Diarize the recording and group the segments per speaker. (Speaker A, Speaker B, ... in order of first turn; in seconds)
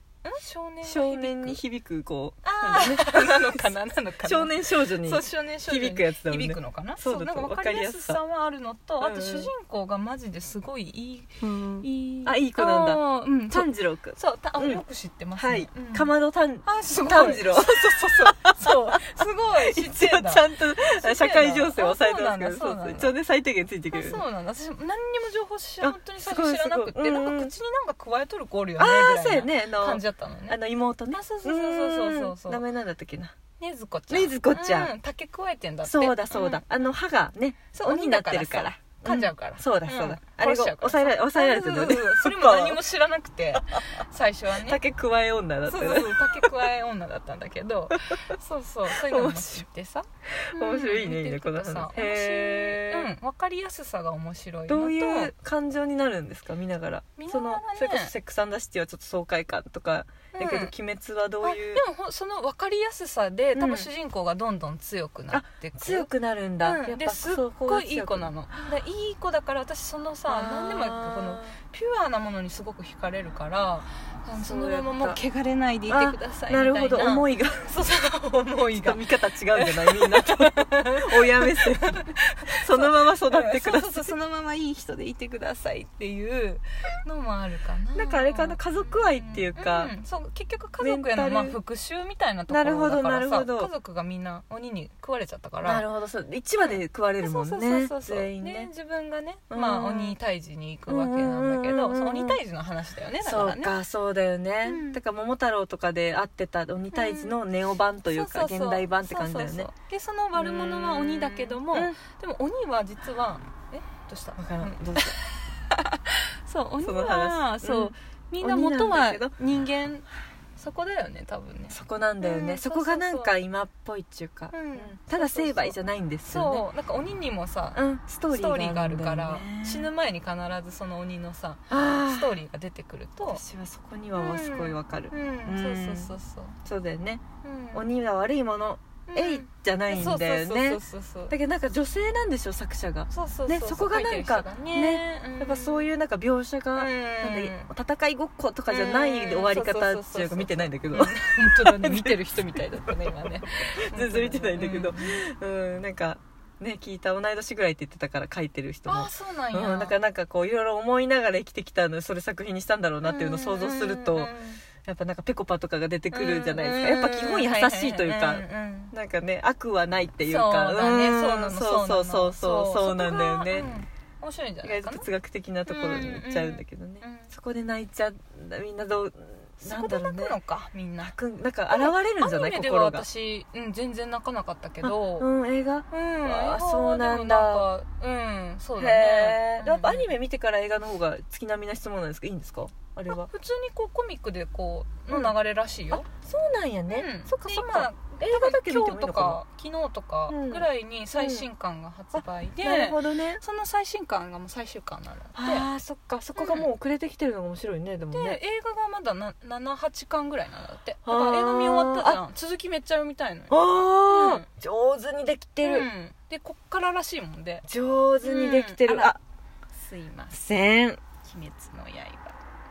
Speaker A: 0.2-1.6, 2.4-16.1, 16.6-23.1, 23.9-30.6, 31.1-32.6, 33.6-36.6, 37.7-44.8, 45.7-55.3, 57.2-58.1, 60.3-60.7, 61.4-66.1, 66.6-79.0, 79.5-95.8, 96.6-103.8, 104.7-105.0, 106.9-107.4, 108.0-123.3, 124.5-133.4, 134.1-136.6, 137.4-137.8, 139.1-141.3, 143.1-145.9, 146.8-147.7, 148.7-155.2, 158.9-160.0, 163.0-164.6, 166.1-168.9, 170.2-175.1, 175.7-177.3, 179.6-181.1, 181.7-185.3, 185.9-190.1, 193.1-196.1, 196.9-205.7, 206.4-206.7, 208.1-213.6, 214.1-214.5, 215.6-217.6, 218.2-219.2, 219.7-220.4, 221.2-222.3
Speaker B: 0.8-3.6, 4.2-8.2, 9.0-9.5, 11.4-14.8, 15.4-19.0, 19.5-24.2, 25.8-27.5, 28.8-33.3, 34.1-34.9, 35.8-42.8, 44.6-46.5, 47.9-48.2, 48.9-49.6, 50.5-53.1, 54.7-61.8, 63.5-63.9, 65.3-68.3, 70.3-71.6, 74.4-75.2, 75.9-77.7, 78.7-82.0, 82.6-84.1, 87.9-89.9, 90.8-91.6, 92.5-93.7, 95.6-98.7, 99.5-100.2, 100.9-102.4, 103.2-109.7, 110.3-112.0, 114.3-115.2, 116.8-119.3, 121.7-126.6, 127.7-129.9, 131.7-132.4, 133.2-152.9, 153.8-173.7, 174.6-180.4, 181.0-183.1, 184.8-187.7, 188.8-193.3, 195.1-195.3, 195.9-199.4, 200.3-201.5, 202.2-203.4, 205.3-208.4, 211.1-212.2, 213.5-215.9, 217.7-219.2, 220.3-221.0